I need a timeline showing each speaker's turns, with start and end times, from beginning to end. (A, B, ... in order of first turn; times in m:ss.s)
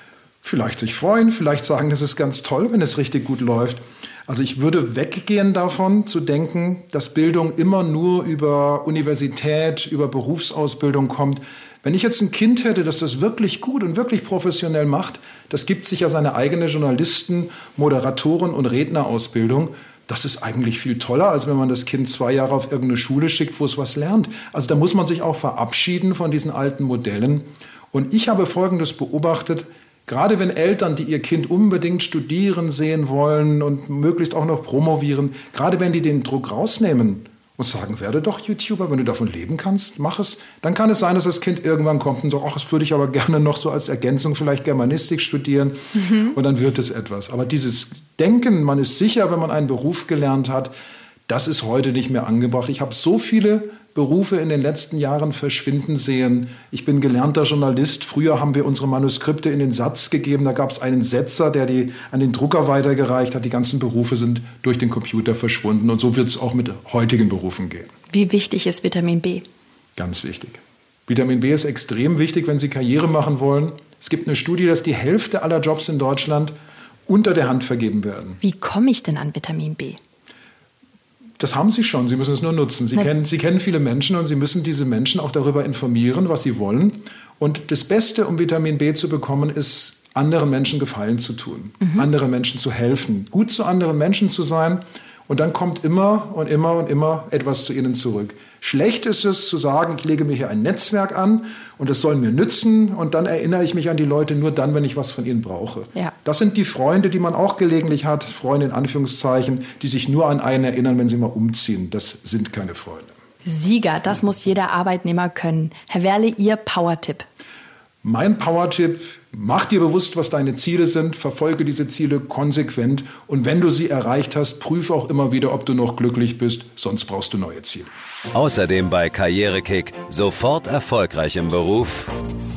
0:00.4-0:50.7 A
0:51.3-1:07.9 A
1:08.1-1:09.4 B
1:10.0-1:16.5 A
1:17.1-1:18.4 A
1:18.4-1:20.0 B
1:21.4-1:53.1 A
1:53.4-1:57.2 B
1:58.0-2:07.9 A
2:08.3-2:12.1 C